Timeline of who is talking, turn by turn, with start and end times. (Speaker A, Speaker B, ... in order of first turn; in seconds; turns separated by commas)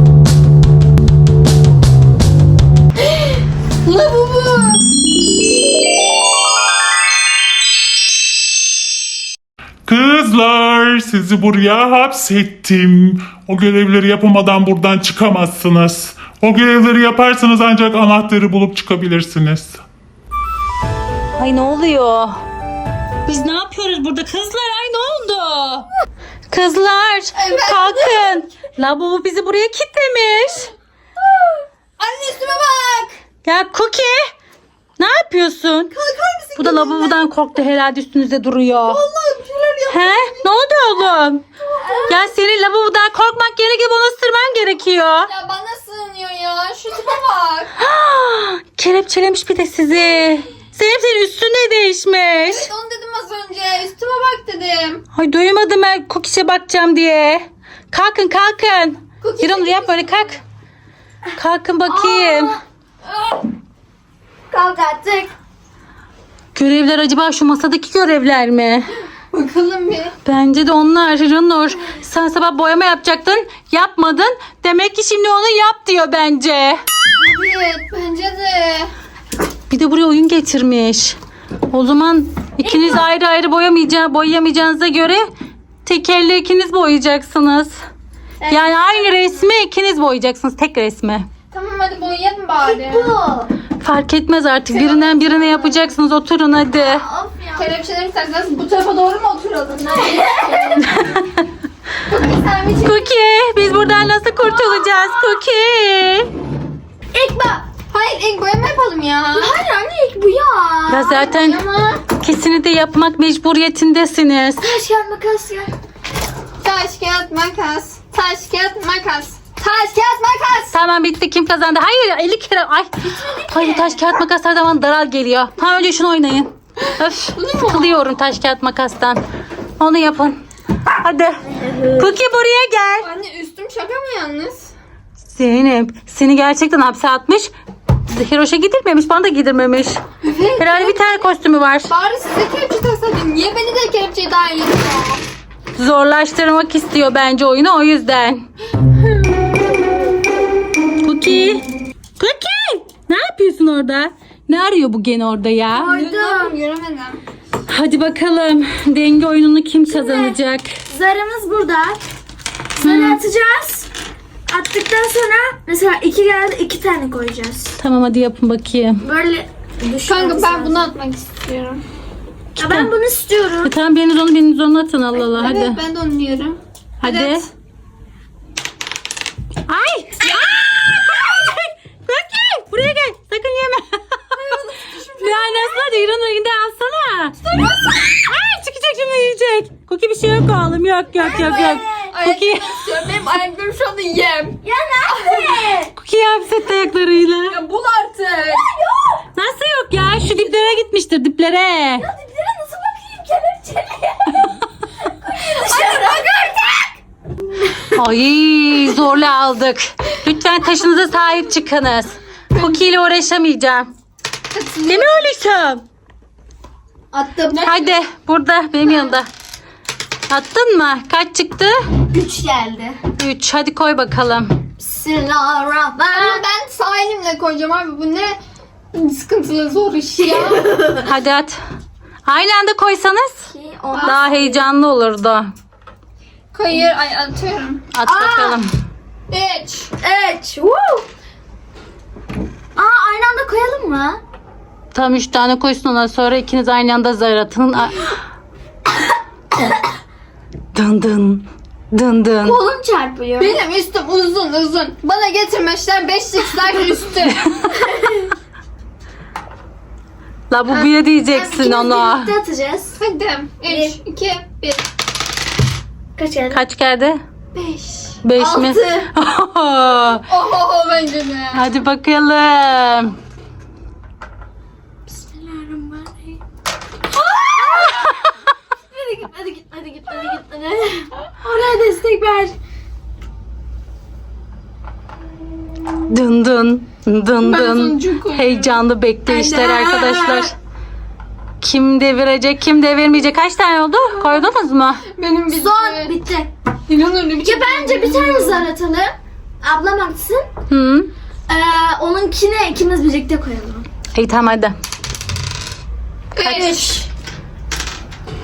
Speaker A: 3.8-4.9, Speaker B: 9.9-19.8, Speaker C: 21.4-22.4, Speaker C: 23.3-25.9, Speaker C: 26.5-30.7, Speaker A: 27.4-28.4, Speaker A: 32.0-33.1, Speaker C: 33.4-34.3, Speaker C: 35.0-35.9, Speaker A: 35.9-37.2, Speaker C: 36.6-39.0, Speaker A: 38.8-40.5, Speaker C: 39.9-41.4, Speaker A: 41.7-42.3, Speaker C: 42.1-45.3, Speaker A: 45.3-47.7, Speaker C: 47.8-52.7, Speaker A: 52.5-55.0, Speaker C: 55.1-60.4, Speaker A: 59.2-60.4, Speaker C: 61.4-62.5, Speaker D: 61.9-62.6, Speaker D: 64.5-65.3, Speaker C: 66.5-68.9, Speaker A: 69.3-70.1, Speaker C: 70.2-76.8, Speaker A: 77.2-78.9, Speaker C: 79.7-81.2, Speaker C: 81.7-85.3, Speaker D: 82.6-83.0, Speaker C: 85.8-87.8, Speaker D: 88.4-88.9, Speaker C: 88.5-91.3, Speaker A: 91.5-93.1, Speaker D: 92.6-93.5, Speaker C: 93.8-97.0, Speaker A: 94.7-95.7, Speaker D: 96.7-97.7, Speaker A: 97.5-101.2, Speaker D: 100.0-100.8, Speaker C: 100.9-101.2, Speaker A: 102.1-103.1, Speaker C: 102.8-106.3, Speaker A: 104.4-105.1, Speaker D: 107.1-107.7, Speaker A: 107.9-109.5, Speaker D: 109.3-111.0, Speaker C: 110.9-111.6, Speaker A: 110.9-112.0, Speaker C: 112.1-114.7, Speaker D: 114.6-115.7, Speaker A: 116.6-120.8, Speaker C: 120.7-122.9, Speaker D: 123.1-124.0, Speaker C: 123.5-129.2, Speaker A: 127.3-128.1, Speaker C: 129.8-130.4, Speaker C: 131.0-133.1, Speaker D: 131.6-132.1, Speaker A: 133.0-134.7, Speaker C: 135.3-137.5, Speaker C: 138.1-140.0, Speaker A: 140.2-141.3, Speaker C: 140.6-141.9, Speaker A: 141.9-145.2, Speaker C: 145.8-148.4, Speaker A: 149.1-149.5, Speaker C: 151.0-151.6, Speaker C: 152.2-155.9, Speaker D: 155.7-156.5, Speaker A: 155.8-157.2, Speaker C: 157.7-160.7, Speaker D: 159.9-160.4, Speaker D: 160.9-162.0, Speaker D: 162.8-163.9, Speaker C: 162.8-163.2, Speaker D: 164.5-167.8, Speaker C: 167.8-169.0, Speaker D: 169.0-170.9, Speaker A: 170.1-171.8, Speaker C: 172.6-172.9, Speaker D: 172.6-173.7, Speaker C: 173.6-175.8, Speaker A: 175.2-177.4, Speaker C: 177.0-177.5, Speaker C: 179.7-184.2, Speaker A: 184.3-185.5, Speaker C: 185.2-187.4, Speaker A: 187.4-188.1, Speaker C: 188.0-192.9, Speaker D: 191.2-192.1, Speaker A: 192.1-195.8, Speaker D: 194.6-195.9, Speaker C: 195.9-197.6, Speaker A: 197.5-198.7, Speaker D: 198.7-199.2, Speaker C: 199.3-202.1, Speaker D: 200.3-200.8, Speaker D: 202.0-206.9, Speaker A: 205.4-206.3, Speaker C: 207.9-213.9, Speaker A: 214.5-215.3, Speaker C: 214.9-215.8, Speaker A: 217.1-218.0, Speaker C: 217.6-219.3, Speaker C: 220.3-221.8, Speaker D: 222.1-223.0, Speaker C: 223.2-224.6, Speaker D: 224.8-226.4, Speaker A: 226.1-228.4, Speaker A: 228.9-230.7, Speaker D: 230.2-231.1, Speaker C: 231.0-231.6, Speaker C: 232.3-233.5, Speaker D: 233.5-234.7, Speaker A: 233.9-234.2, Speaker C: 234.0-235.5, Speaker A: 236.5-237.8, Speaker C: 237.9-238.7, Speaker D: 238.1-238.6, Speaker A: 239.3-239.9, Speaker D: 240.0-241.1, Speaker D: 242.8-244.2, Speaker C: 244.9-248.1, Speaker C: 250.7-252.6, Speaker D: 252.4-253.6, Speaker A: 253.4-257.4, Speaker D: 257.9-258.2, Speaker C: 260.5-262.3, Speaker D: 261.3-262.9, Speaker A: 263.0-264.8, Speaker D: 263.7-263.9, Speaker D: 266.2-266.6, Speaker C: 266.5-267.2, Speaker D: 267.6-269.1, Speaker C: 268.2-270.2, Speaker A: 270.3-271.6, Speaker C: 271.5-273.2, Speaker D: 275.1-276.4, Speaker D: 277.1-278.1, Speaker D: 278.9-282.6, Speaker C: 286.1-290.5, Speaker A: 287.4-290.5, Speaker C: 291.6-295.1, Speaker A: 295.1-296.1, Speaker D: 295.5-296.5, Speaker A: 296.9-298.7, Speaker D: 297.4-300.5, Speaker C: 300.7-301.1, Speaker D: 301.5-303.9, Speaker C: 304.1-304.8, Speaker A: 306.4-307.1, Speaker C: 306.4-306.9